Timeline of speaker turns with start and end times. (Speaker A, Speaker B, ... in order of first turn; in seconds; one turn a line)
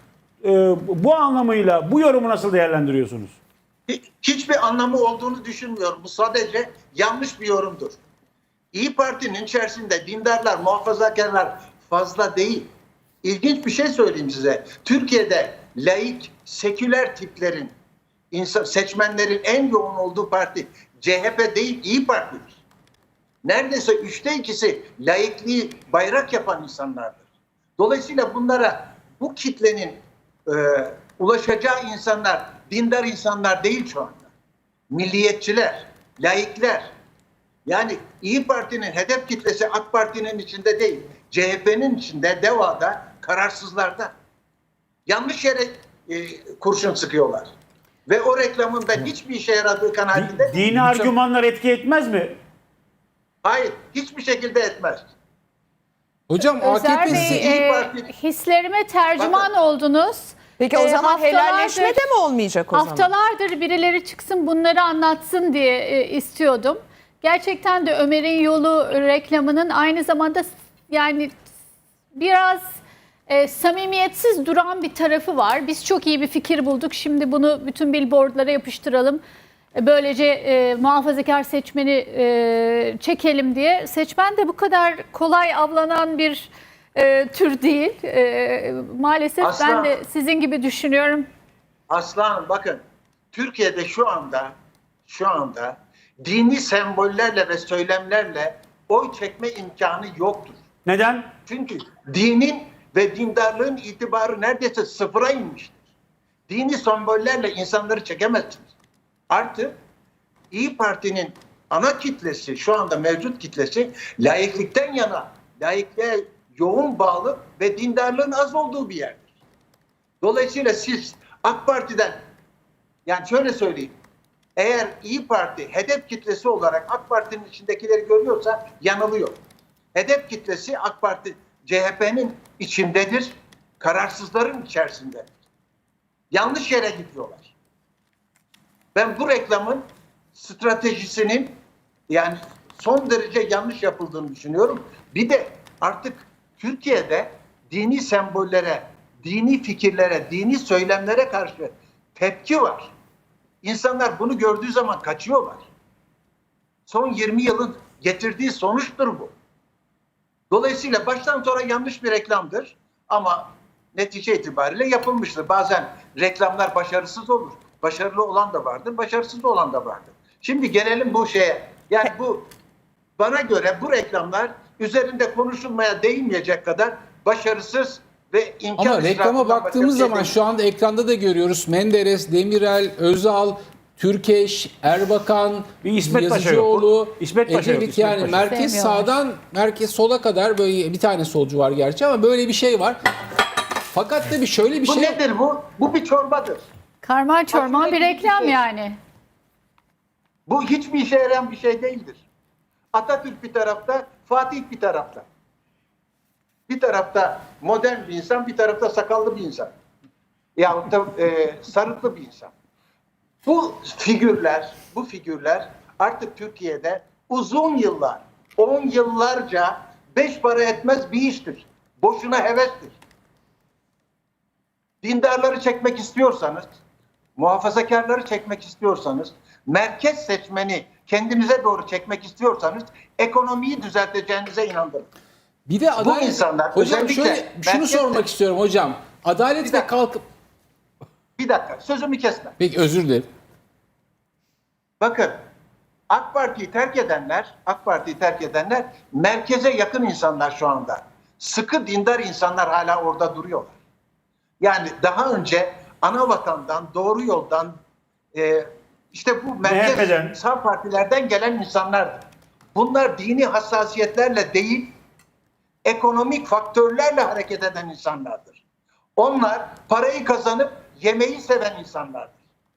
Speaker A: 0.4-3.4
Speaker B: 3.9-8.0
Speaker B: 8.7-12.7
Speaker B: 13.2-17.7
Speaker B: 18.3-22.6
Speaker B: 23.4-27.2
Speaker B: 27.8-34.3
Speaker B: 34.9-36.9
Speaker B: 37.7-44.1
Speaker B: 45.1-47.5
Speaker B: 48.1-51.1
Speaker A: 50.1-52.4
Speaker B: 53.4-55.1
Speaker C: 56.3-57.5
Speaker D: 56.6-62.1
Speaker B: 57.1-58.1
Speaker B: 59.2-59.5
Speaker E: 60.6-63.1
Speaker D: 62.7-71.3
Speaker D: 72.2-72.6
Speaker D: 73.3-79.2
Speaker D: 79.8-91.3
Speaker B: 89.4-89.9
Speaker B: 91.9-92.8
Speaker B: 93.3-94.5
Speaker B: 95.1-100.6
Speaker A: 100.8-101.3
Speaker B: 101.5-105.8
Speaker B: 106.5-108.7
Speaker B: 109.3-109.8
Speaker B: 110.5-119.3
Speaker B: 120.2-122.2
Speaker B: 123.1-124.0
Speaker B: 124.6-129.4
Speaker B: 129.9-135.3
Speaker B: 136.3-137.5
Speaker B: 138.9-141.6
Speaker B: 142.1-152.9
Speaker B: 153.6-155.7
Speaker B: 156.9-159.3
Speaker B: 160.5-172.5
Speaker B: 173.2-180.3
Speaker C: 178.8-193.0
Speaker A: 185.8-188.5
Speaker D: 188.4-189.1
Speaker C: 193.9-195.2
Speaker B: 194.8-196.7
Speaker D: 197.0-199.0
Speaker B: 197.5-198.6
Speaker B: 200.5-202.2
Speaker B: 202.9-205.3
Speaker B: 206.7-209.7
Speaker B: 210.6-212.5
Speaker B: 213.4-223.0
Speaker B: 225.0-226.7
Speaker B: 227.4-235.1
Speaker C: 235.7-240.2
Speaker B: 236.0-238.3
Speaker B: 239.6-239.9
Speaker B: 241.4-242.6
Speaker C: 242.6-243.3
Speaker B: 245.0-245.4
Speaker B: 246.1-253.8
Speaker B: 254.6-257.8
Speaker B: 258.3-265.0
Speaker A: 259.6-260.4
Speaker B: 265.9-268.6
Speaker B: 269.2-272.4